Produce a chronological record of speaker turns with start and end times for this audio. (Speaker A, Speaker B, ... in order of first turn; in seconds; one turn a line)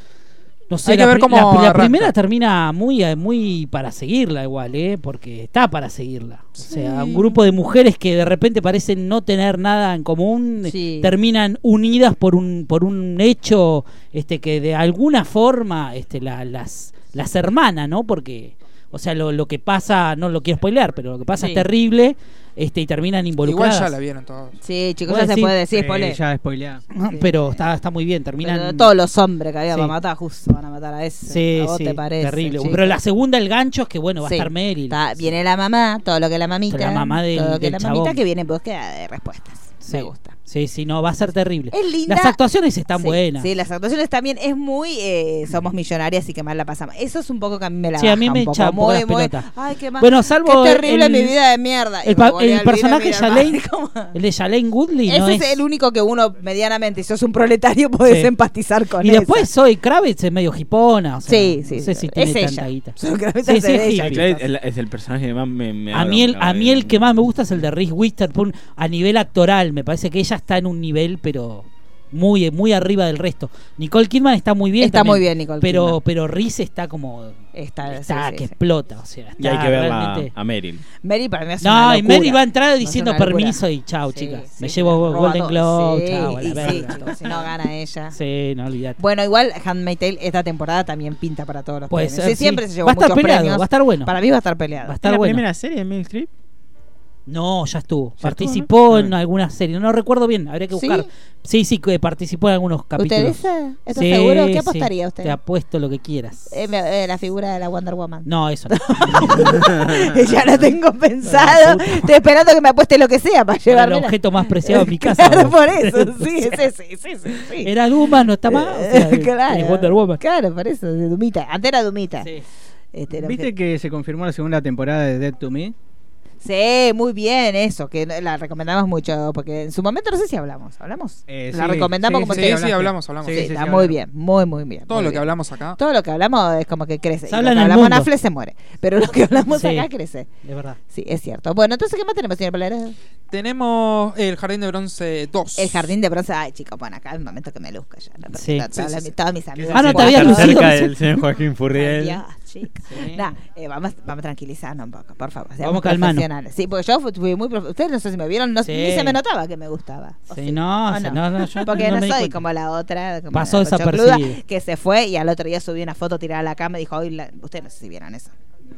Speaker A: 0.7-23.9
Speaker B: 0.8-2.1
Speaker B: 6.6-7.2
Speaker C: 10.7-11.1
Speaker C: 21.4-21.6
Speaker B: 23.4-24.6
Speaker C: 24.6-26.2
Speaker A: 25.1-25.6
Speaker D: 25.6-26.8
Speaker A: 26.9-28.9
Speaker C: 27.0-27.6
Speaker C: 28.4-33.0
Speaker A: 31.3-35.0
Speaker C: 34.2-40.3
Speaker A: 36.7-38.2
Speaker A: 39.8-43.5
Speaker C: 41.7-42.4
Speaker C: 43.0-54.1
Speaker A: 48.0-49.5
Speaker A: 50.0-51.3
Speaker A: 52.0-53.6
Speaker A: 54.1-55.6
Speaker C: 55.1-59.5
Speaker A: 58.0-58.3
Speaker A: 59.0-64.2
Speaker C: 61.3-64.4
Speaker E: 63.9-67.0
Speaker A: 65.9-80.3
Speaker C: 74.8-76.0
Speaker C: 77.5-78.5
Speaker E: 79.4-80.8
Speaker C: 81.0-83.6
Speaker A: 81.6-87.3
Speaker C: 84.1-88.1
Speaker A: 88.1-89.0
Speaker C: 89.0-94.9
Speaker A: 91.9-94.1
Speaker A: 94.8-95.4
Speaker E: 95.0-96.3
Speaker A: 97.3-103.4
Speaker E: 98.2-99.1
Speaker C: 100.7-101.0
Speaker C: 103.0-105.4
Speaker A: 103.9-106.5
Speaker C: 106.5-117.7
Speaker A: 108.2-109.6
Speaker A: 111.2-112.1
Speaker A: 113.7-116.7
Speaker A: 117.6-120.2
Speaker C: 118.5-122.3
Speaker C: 122.9-123.5
Speaker D: 123.1-125.7
Speaker C: 126.4-135.2
Speaker D: 131.3-134.0
Speaker B: 132.2-133.5
Speaker B: 134.9-135.8
Speaker C: 135.8-140.3
Speaker A: 137.3-138.1
Speaker A: 139.5-139.9
Speaker A: 140.4-140.8
Speaker C: 140.9-142.9
Speaker B: 143.3-145.9
Speaker C: 145.6-168.3
Speaker A: 148.3-148.7
Speaker B: 148.7-149.1
Speaker A: 149.7-150.9
Speaker E: 149.8-152.2
Speaker B: 149.8-150.1
Speaker A: 155.6-156.2
Speaker A: 158.6-159.2
Speaker A: 160.3-162.4
Speaker A: 163.3-164.4